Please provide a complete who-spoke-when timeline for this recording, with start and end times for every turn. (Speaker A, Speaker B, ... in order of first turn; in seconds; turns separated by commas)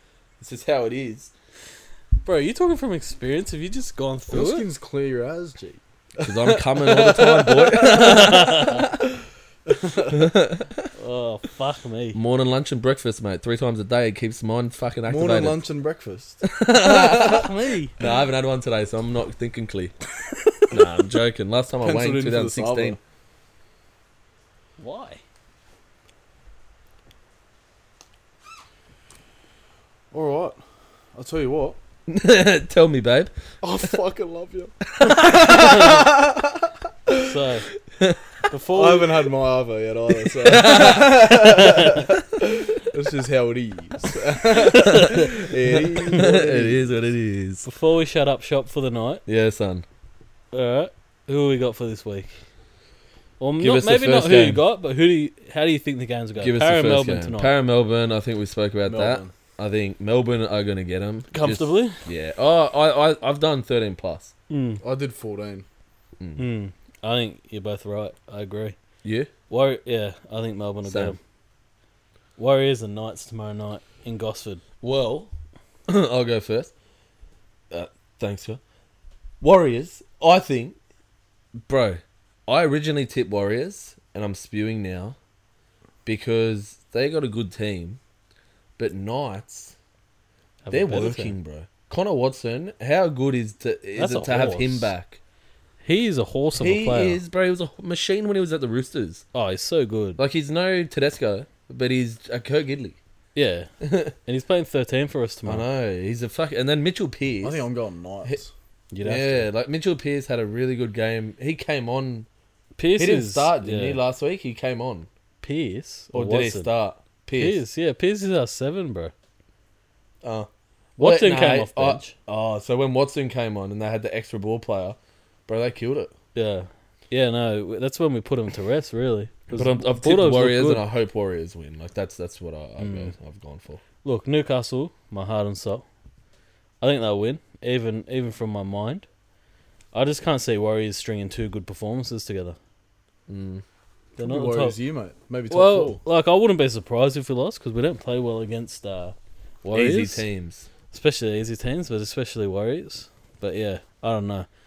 Speaker A: 0.4-1.3, Speaker B: 2.2-4.7, Speaker C: 4.3-8.8, Speaker A: 6.2-9.1, Speaker C: 9.7-10.3, Speaker A: 10.1-10.9, Speaker B: 11.0-12.2, Speaker A: 12.2-15.6, Speaker C: 15.1-16.4, Speaker A: 16.4-20.0, Speaker C: 17.0-17.3, Speaker B: 17.0-18.0, Speaker A: 20.7-23.0, Speaker C: 21.8-23.0, Speaker B: 24.8-25.2, Speaker C: 30.1-30.6, Speaker C: 31.1-31.8, Speaker A: 32.1-33.3, Speaker C: 33.6-37.3, Speaker A: 34.9-36.1, Speaker B: 37.2-37.7, Speaker B: 38.5-39.2, Speaker C: 38.7-46.9, Speaker A: 40.3-42.4, Speaker B: 41.6-42.0, Speaker A: 44.6-47.7, Speaker B: 44.9-45.2, Speaker B: 47.6-49.2, Speaker A: 49.3-49.9, Speaker B: 50.5-52.4, Speaker B: 53.4-57.5, Speaker A: 53.6-54.6, Speaker A: 56.4-64.3, Speaker C: 58.9-59.3, Speaker B: 61.3-62.0, Speaker B: 64.5-64.8, Speaker C: 64.8-65.7, Speaker A: 66.2-66.5, Speaker B: 66.4-68.8, Speaker A: 69.0-69.3, Speaker B: 69.5-71.2, Speaker A: 70.8-71.2, Speaker B: 72.4-74.6, Speaker A: 74.8-75.3, Speaker A: 75.9-76.7, Speaker A: 77.7-78.6, Speaker A: 79.4-80.8, Speaker A: 81.7-85.2, Speaker A: 86.0-88.0, Speaker A: 88.8-89.8, Speaker B: 90.7-91.3, Speaker A: 90.7-95.2, Speaker B: 94.0-94.9, Speaker B: 95.8-97.2, Speaker A: 96.6-99.2, Speaker B: 99.3-100.2, Speaker A: 100.2-103.0, Speaker B: 103.3-103.7, Speaker A: 103.8-104.2, Speaker B: 104.2-105.7, Speaker A: 105.5-107.7, Speaker C: 107.4-108.5, Speaker B: 108.9-109.5, Speaker A: 109.0-112.3, Speaker B: 112.8-114.0, Speaker A: 113.0-115.1, Speaker B: 115.4-116.7, Speaker A: 116.1-117.6, Speaker B: 117.4-119.1, Speaker A: 120.2-126.1, Speaker B: 121.0-122.2, Speaker B: 126.3-130.8, Speaker A: 129.5-133.8, Speaker B: 132.8-133.1, Speaker B: 134.0-135.8, Speaker B: 136.8-139.1, Speaker B: 139.9-142.6, Speaker A: 143.3-143.6, Speaker B: 144.2-144.8, Speaker C: 144.2-146.0, Speaker B: 145.5-149.2, Speaker A: 149.6-150.7, Speaker B: 149.7-150.3, Speaker B: 150.9-154.5